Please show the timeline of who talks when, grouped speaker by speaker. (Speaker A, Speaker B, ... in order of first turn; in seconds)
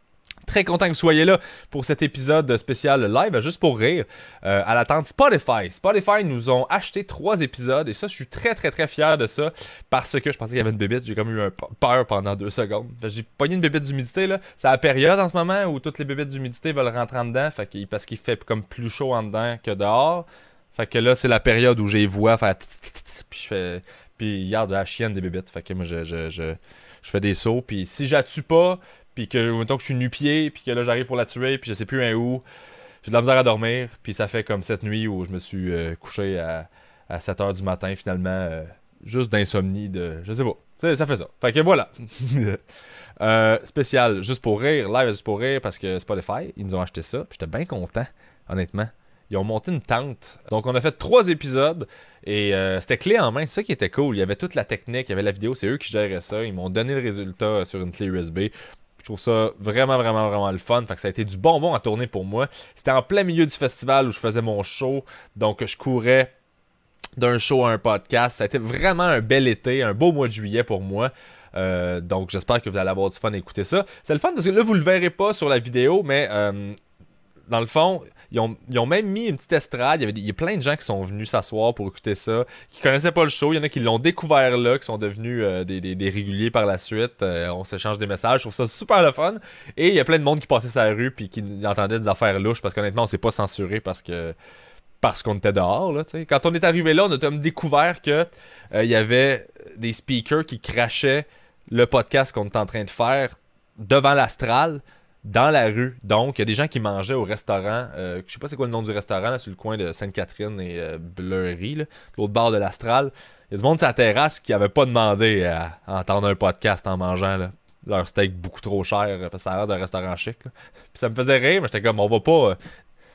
Speaker A: 0.5-32.4, 33.0-42.6, 43.2-66.3, 67.2-76.8, 77.5-94.3, 95.0-122.6